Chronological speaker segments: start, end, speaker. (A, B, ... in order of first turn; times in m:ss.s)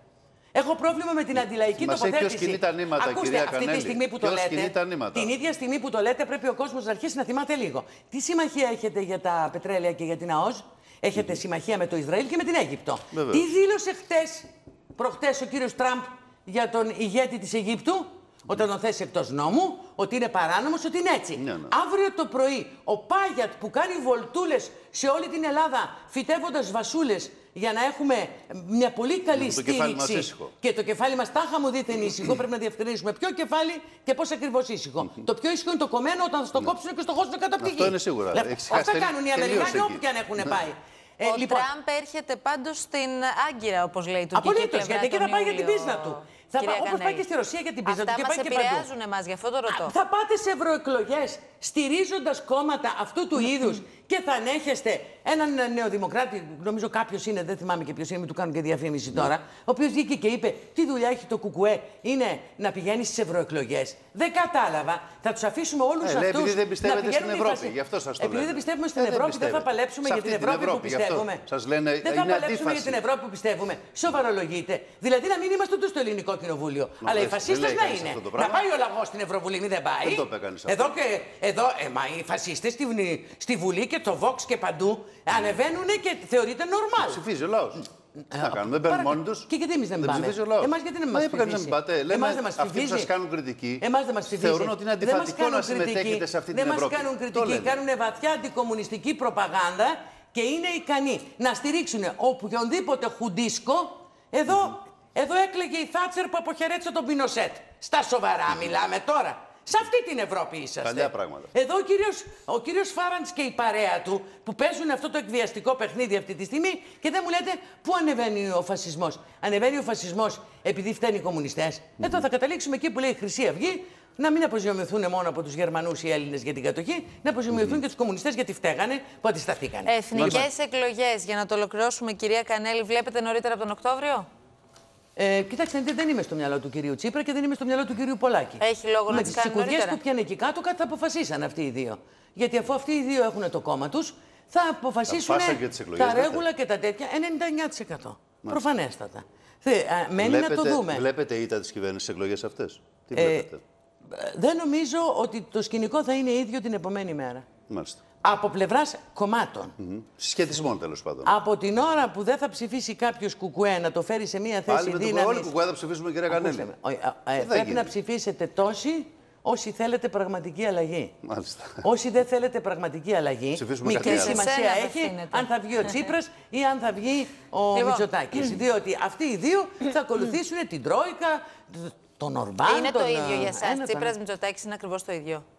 0:00.5-0:41.7 A
0:01.8-0:05.3 B
0:13.1-0:13.4 B
0:21.4-0:21.7 B
0:29.3-0:30.5 B
0:37.6-0:40.0 B
0:41.2-0:47.2 C
0:44.3-0:48.9 A
0:47.8-0:49.9 C
0:49.7-1:11.4 A
1:06.0-1:13.0 B
1:12.0-1:27.3 A
1:17.0-1:18.6 B
1:20.0-1:20.9 B
1:27.0-1:27.8 B
1:28.3-1:33.1 A
1:28.4-1:29.5 B
1:30.0-1:37.8 B
1:33.8-2:09.9 A
1:50.8-1:51.5 B
2:09.8-2:14.3 C
2:10.1-2:10.5 B
2:15.2-2:31.1 A
2:18.6-2:20.0 C
2:25.1-2:26.4 B
2:30.2-2:33.6 B
2:33.1-2:33.5 A
2:34.0-2:37.4 A
2:37.7-2:38.0 B
2:38.2-2:39.8 A
2:39.8-2:41.3 B
2:41.2-2:45.6 A
2:44.7-2:46.7 B
2:46.3-2:51.2 A
2:47.4-2:47.9 B
2:51.2-2:51.9 B
2:51.8-3:04.2 A
2:53.5-2:54.4 B
2:53.9-2:56.1 C
2:57.7-2:58.0 C
3:02.6-3:05.4 C